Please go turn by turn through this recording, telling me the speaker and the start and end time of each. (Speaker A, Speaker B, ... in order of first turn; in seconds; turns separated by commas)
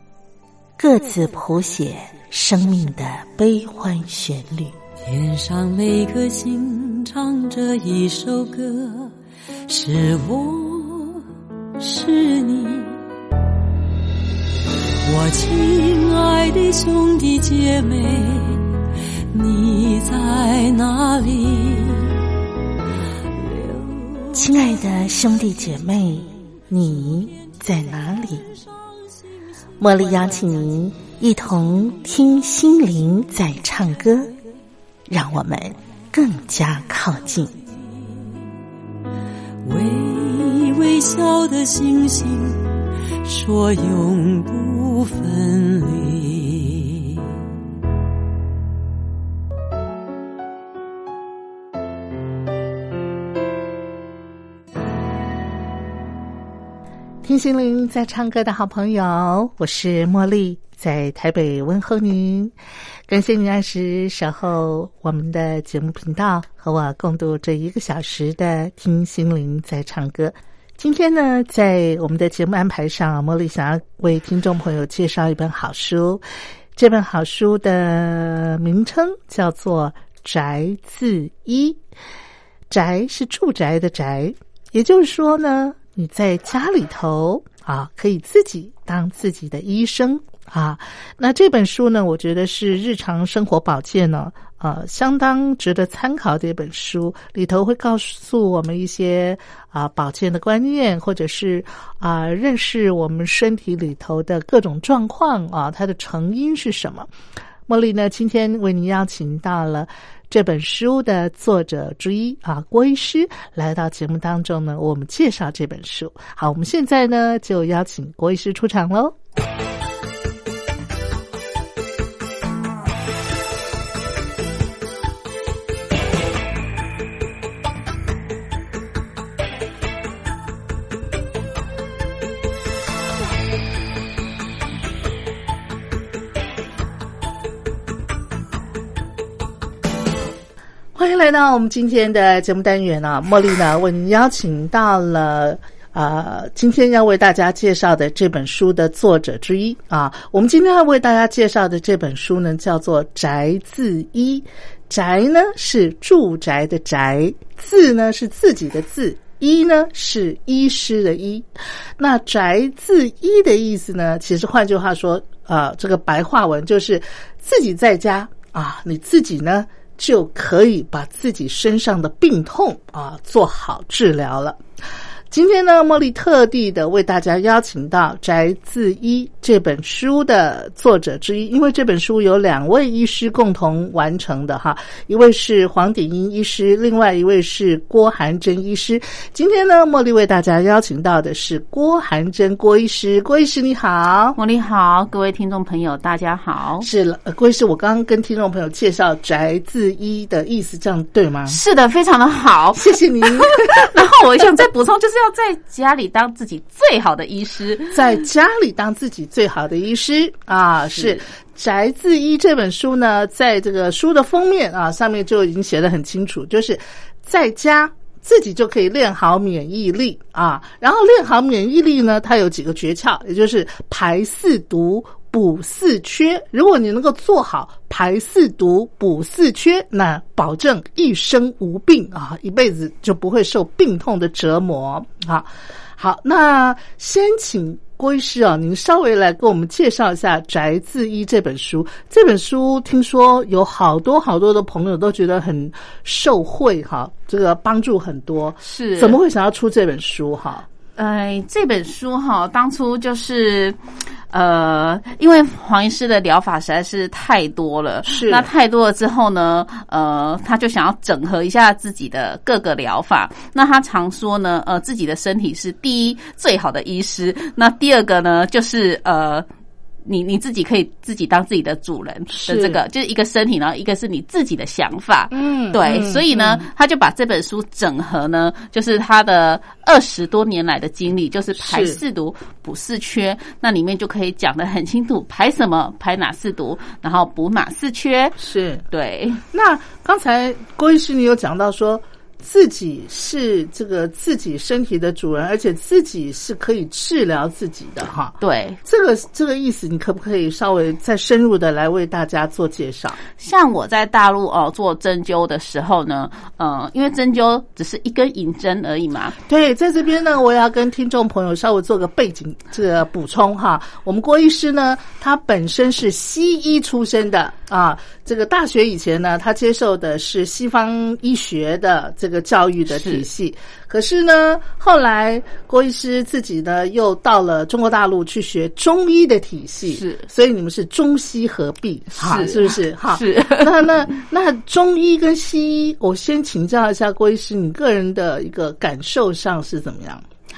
Speaker A: 0.8-4.8, Speaker B: 5.0-9.1, Speaker B: 9.7-11.2, Speaker B: 11.8-13.0, Speaker B: 15.0-22.3, Speaker B: 23.3-24.5, Speaker A: 24.3-28.5, Speaker A: 29.8-34.3, Speaker A: 35.1-37.5, Speaker B: 39.6-47.3, Speaker A: 57.2-62.5, Speaker A: 63.1-76.2, Speaker A: 76.8-81.8, Speaker A: 82.7-107.1, Speaker A: 107.7-119.2, Speaker A: 140.9-174.6, Speaker A: 175.3-194.4, Speaker C: 194.3-196.9, Speaker A: 196.8-201.6, Speaker C: 201.5-208.2, Speaker A: 202.7-204.1, Speaker A: 207.9-250.7, Speaker C: 248.6-249.2, Speaker C: 251.0-253.8, Speaker C: 254.3-269.4, Speaker A: 258.1-258.5, Speaker C: 270.1-288.4, Speaker A: 272.3-272.8, Speaker A: 275.3-276.6, Speaker A: 281.6-282.0, Speaker A: 288.4-288.8, Speaker C: 288.9-289.4, Speaker A: 289.5-303.2, Speaker C: 298.4-298.8, Speaker C: 303.4-309.4, Speaker A: 309.5-340.2, Speaker C: 322.9-323.2, Speaker C: 329.9-330.3, Speaker C: 332.2-333.8